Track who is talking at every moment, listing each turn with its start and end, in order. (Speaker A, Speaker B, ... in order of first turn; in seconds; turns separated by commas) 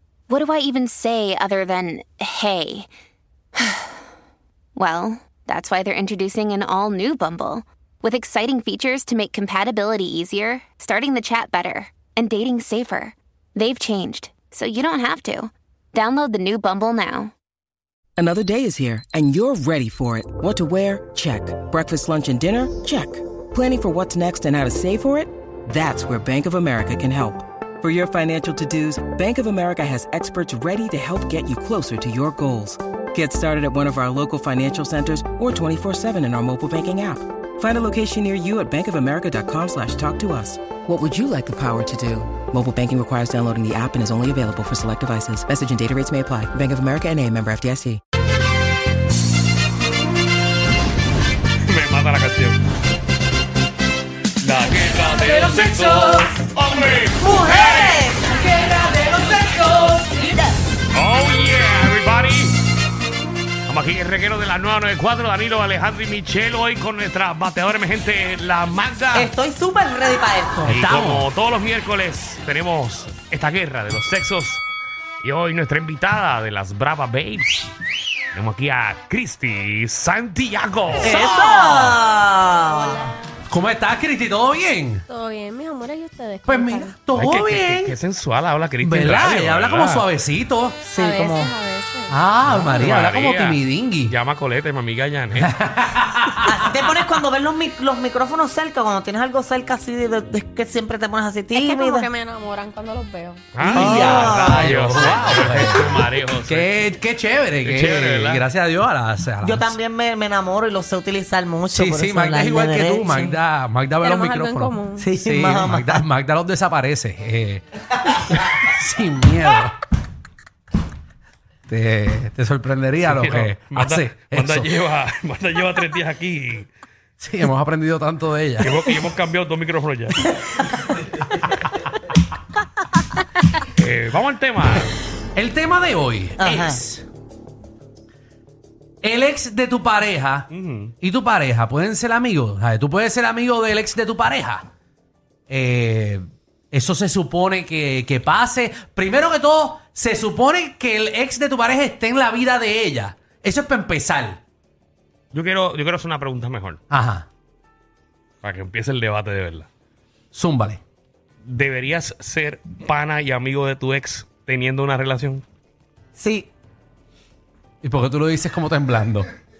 Speaker A: 0.3-2.9, Speaker A: 3.5-4.0, Speaker A: 4.8-17.3, Speaker B: 18.2-48.0, Speaker C: 51.6-52.6, Speaker C: 54.4-58.0, Speaker D: 57.2-60.4, Speaker C: 60.9-62.6, Speaker C: 63.7-69.3, Speaker D: 69.1-70.7, Speaker E: 70.6-71.3, Speaker C: 70.7-74.6, Speaker C: 75.2-77.7, Speaker C: 78.3-81.3, Speaker D: 81.0-83.1, Speaker E: 81.0-81.9, Speaker E: 83.5-85.0, Speaker F: 85.1-86.9, Speaker E: 86.5-88.0, Speaker C: 87.1-90.0, Speaker E: 88.8-90.8, Speaker D: 90.8-91.5, Speaker F: 91.0-92.2, Speaker E: 92.1-94.1, Speaker C: 92.5-95.5, Speaker E: 95.3-96.5, Speaker D: 96.4-102.1, Speaker F: 101.5-103.4, Speaker C: 103.5-106.8, Speaker E: 103.6-109.7, Speaker D: 103.7-104.8, Speaker C: 107.6-108.4, Speaker D: 109.4-113.4, Speaker E: 111.7-117.6, Speaker F: 114.0-115.1, Speaker D: 115.0-116.0, Speaker E: 118.3-119.8, Speaker E: 121.7-124.7, Speaker C: 123.0-126.7, Speaker E: 127.2-128.9, Speaker C: 128.6-130.6, Speaker C: 133.8-135.0, Speaker E: 135.3-137.0, Speaker D: 136.4-136.8, Speaker E: 139.0-140.5, Speaker C: 140.5-140.9, Speaker E: 141.0-144.7, Speaker E: 145.5-154.4, Speaker C: 155.3-156.8, Speaker E: 156.9-157.3, Speaker C: 158.4-159.7, Speaker E: 160.3-160.8, Speaker C: 161.4-165.4, Speaker D: 166.2-166.5, Speaker E: 167.8-169.3